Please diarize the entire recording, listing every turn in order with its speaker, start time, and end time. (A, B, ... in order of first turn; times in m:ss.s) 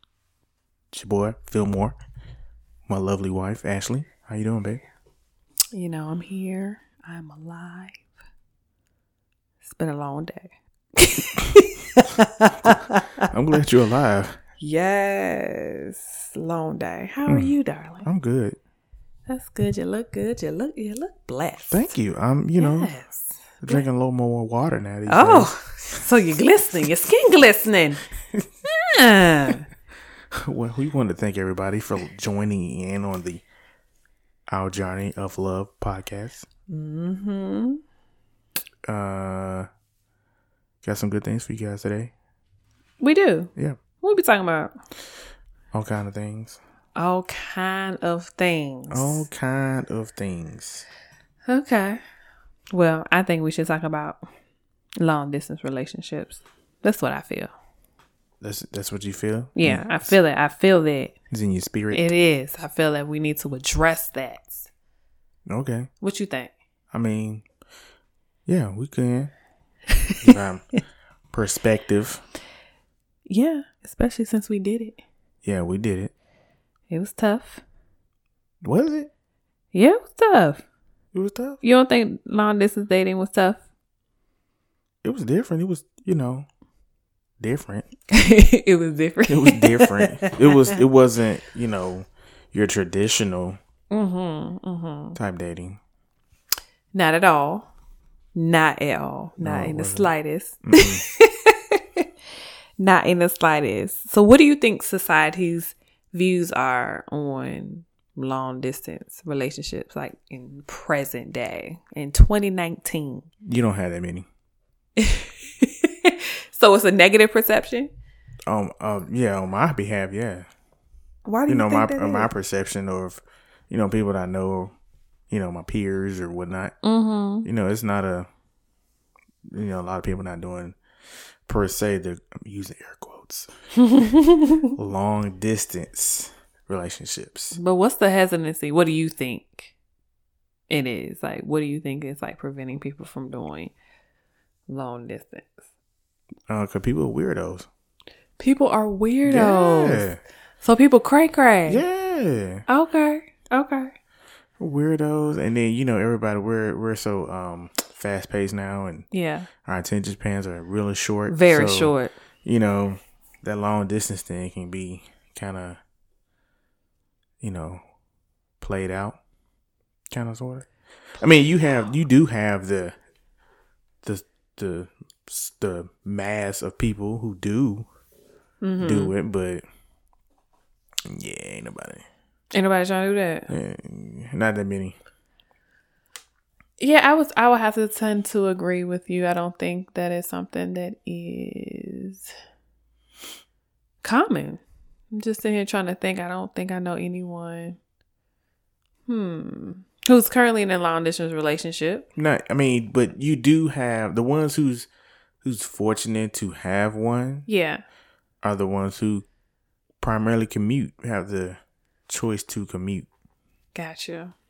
0:00.9-0:02.0 A
0:02.9-0:04.8 A
0:05.7-0:08.1 B
0:09.6-0:13.2 B
0:13.2-0:14.4 A
0:14.6-0:18.1 B
0:17.2-0:17.5 A
0:18.0-0:18.6 A
0:19.3-0:21.9 B
0:21.7-0:22.9 A
0:22.6-0:23.8 B
0:23.6-0:26.0 A
0:25.1-0:28.0 B
0:28.6-0:29.6 B
0:30.3-0:33.4 A
0:34.5-0:36.4 A
0:36.7-0:37.8 B
0:38.9-0:39.7 A
0:40.8-0:42.1 A
0:43.0-0:44.7 B
0:45.7-0:46.6 A
0:47.0-0:49.2 B
0:48.9-0:50.8 A
0:51.5-0:52.0 B
0:52.7-0:54.2 B
0:55.0-0:57.5 B
0:58.4-1:00.2 A
0:59.6-1:01.1 B
1:01.3-1:02.0 A
1:01.9-1:04.7 B
1:05.5-1:05.9 A
1:06.0-1:06.5 B
1:06.9-1:07.5 A
1:08.5-1:09.3 A
1:10.2-1:10.7 A
1:11.3-1:12.2 A
1:13.3-1:15.0 B
1:15.4-1:16.1 A
1:16.9-1:17.6 B
1:18.6-1:19.1 A
1:19.7-1:20.6 B
1:21.1-1:21.6 A
1:21.6-1:23.6 B
1:25.0-1:26.5 A
1:27.4-1:27.9 A
1:28.1-1:30.3 B
1:29.3-1:33.6 A
1:33.9-1:35.2 B
1:35.2-1:35.8 A
1:36.9-1:37.7 B
1:38.3-1:42.1 B
1:39.4-1:40.1 A
1:40.6-1:41.0 A
1:42.8-1:53.3 B
1:53.4-1:54.3 A
1:55.0-1:57.9 B
1:58.5-2:00.5 A
2:01.3-2:02.3 B
2:01.5-2:04.7 A
2:05.3-2:06.8 A
2:06.8-2:07.5 B
2:07.4-2:08.3 A
2:09.5-2:10.8 A
2:11.4-2:13.5 A
2:13.8-2:14.7 B
2:14.7-2:17.6 A
2:17.5-2:19.7 B
2:20.7-2:23.7 B
2:24.7-2:25.5 B
2:26.5-2:27.7 A
2:28.4-2:30.0 B
2:29.2-2:30.2 A
2:30.6-2:31.8 B
2:31.7-2:32.7 A
2:32.7-2:33.9 B
2:34.6-2:39.1 A
2:39.1-2:39.5 B
2:39.6-2:45.8 A
2:41.3-2:42.1 B
2:47.4-2:47.8 A
2:48.6-2:49.2 A
2:50.1-2:53.0 A
2:54.0-2:57.9 A
2:58.6-2:59.1 B
2:58.8-2:59.6 A
3:01.1-3:02.0 A
3:02.5-3:03.5 B
3:03.5-3:05.0 A
3:06.8-3:12.3 B
3:14.0-3:17.8 B
3:19.1-3:22.0 B
3:22.1-3:24.9 A
3:25.4-3:27.4 A
3:27.5-3:27.8 B
3:28.4-3:29.2 A
3:30.0-3:33.1 A
3:33.8-3:34.3 B